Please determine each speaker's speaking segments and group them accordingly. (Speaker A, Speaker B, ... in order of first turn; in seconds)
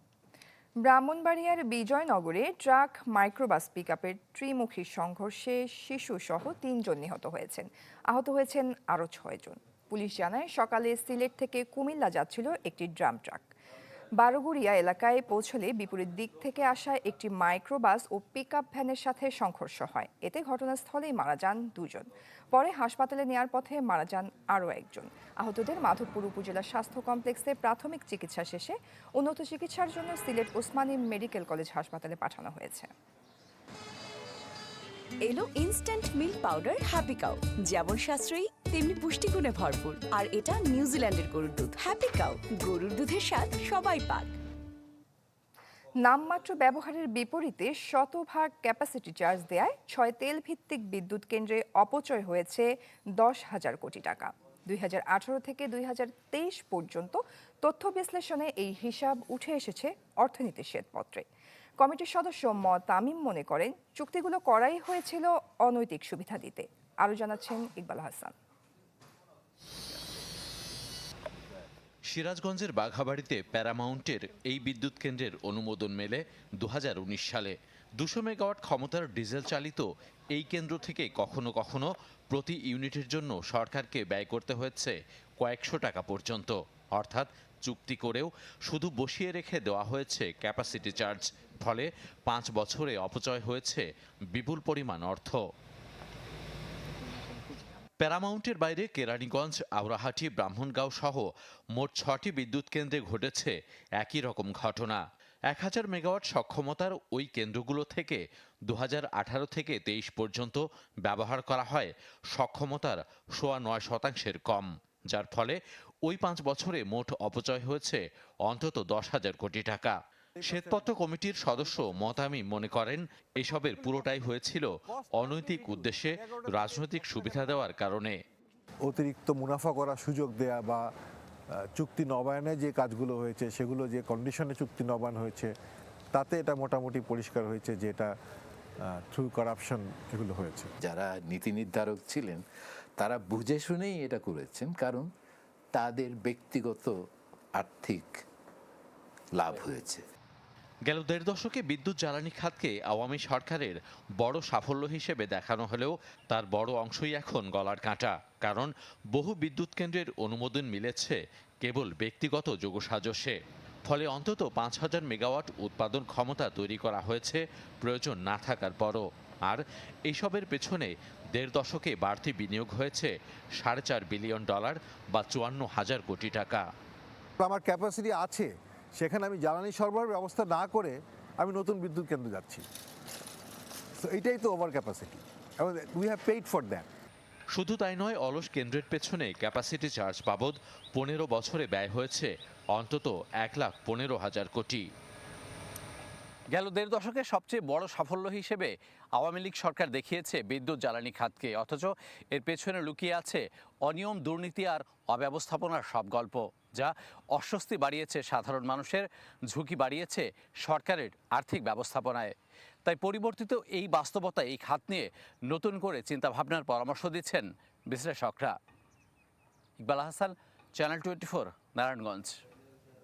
Speaker A: 0.8-13.4, 14.2-32.9, 46.0-61.2, 61.8-68.3
Speaker B: 35.2-44.3
Speaker C: 72.1-95.5, 98.0-128.2, 150.9-176.7, 187.5-194.9
Speaker D: 125.3-126.4, 128.9-130.8, 131.8-135.5, 136.1-138.1, 138.9-140.7, 177.4-182.7, 184.0-186.9
Speaker E: 140.8-142.4, 143.0-145.1, 145.8-146.9, 147.6-148.1, 149.4-150.0
Speaker F: 196.5-212.3, 212.9-218.6, 219.8-222.3